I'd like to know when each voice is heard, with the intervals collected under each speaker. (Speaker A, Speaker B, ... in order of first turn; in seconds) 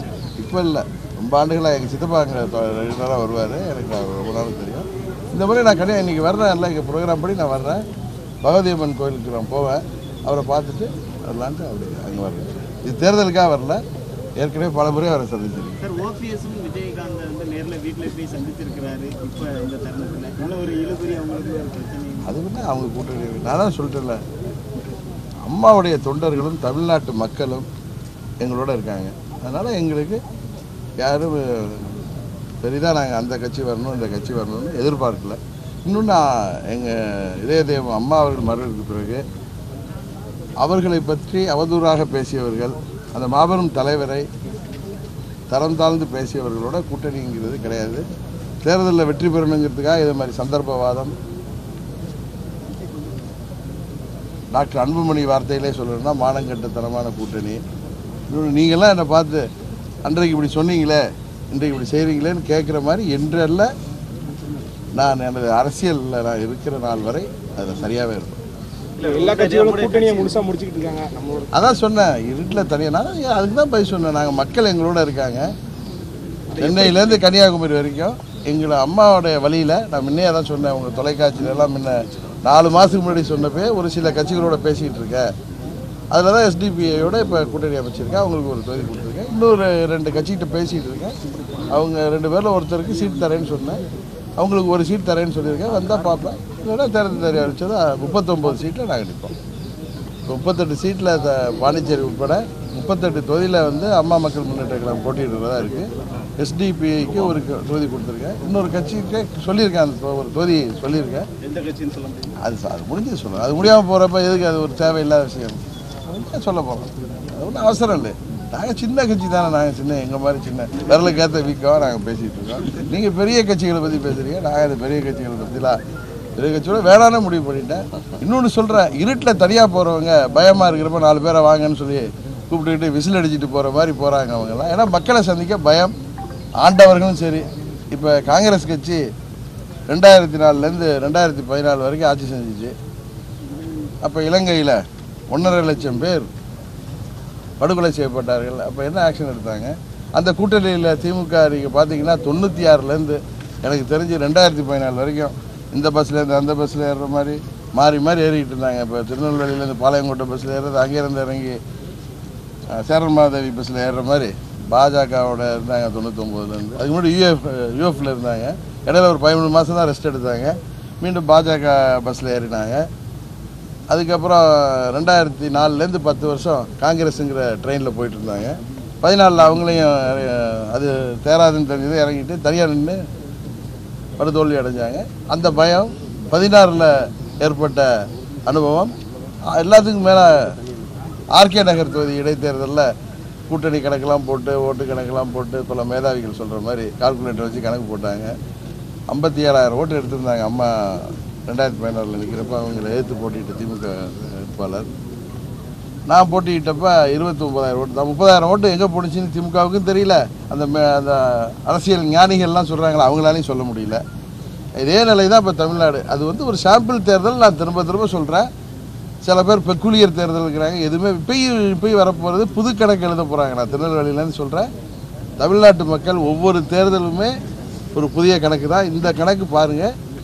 Speaker A: 0.4-7.8, 8.4-13.8, 14.4-15.8, 22.2-24.2, 25.4-27.7, 28.4-30.2, 31.0-32.0, 32.6-39.2, 40.6-44.3, 45.5-48.0, 48.6-51.1, 54.5-57.6, 58.3-59.4, 60.0-63.7, 65.0-68.4, 71.5-75.5, 76.6-85.3, 86.1-91.2, 91.7-93.8, 94.4-99.3, 100.3-111.2, 112.4-125.8, 126.4-135.9, 136.6-139.0, 139.9-142.7, 144.0-146.3, 147.6-161.6, 162.7-172.8, 173.9-183.0, 184.2-187.9, 188.5-188.9, 189.5-190.3, 191.3-192.9, 193.5-198.3, 199.1-204.9, 206.1-214.0, 214.8-218.5, 219.2-224.7, 225.4-227.3, 227.9-229.9
Speaker B: 15.8-22.3, 69.0-70.4, 76.5-77.2, 111.4-112.3
Speaker C: 69.0-71.5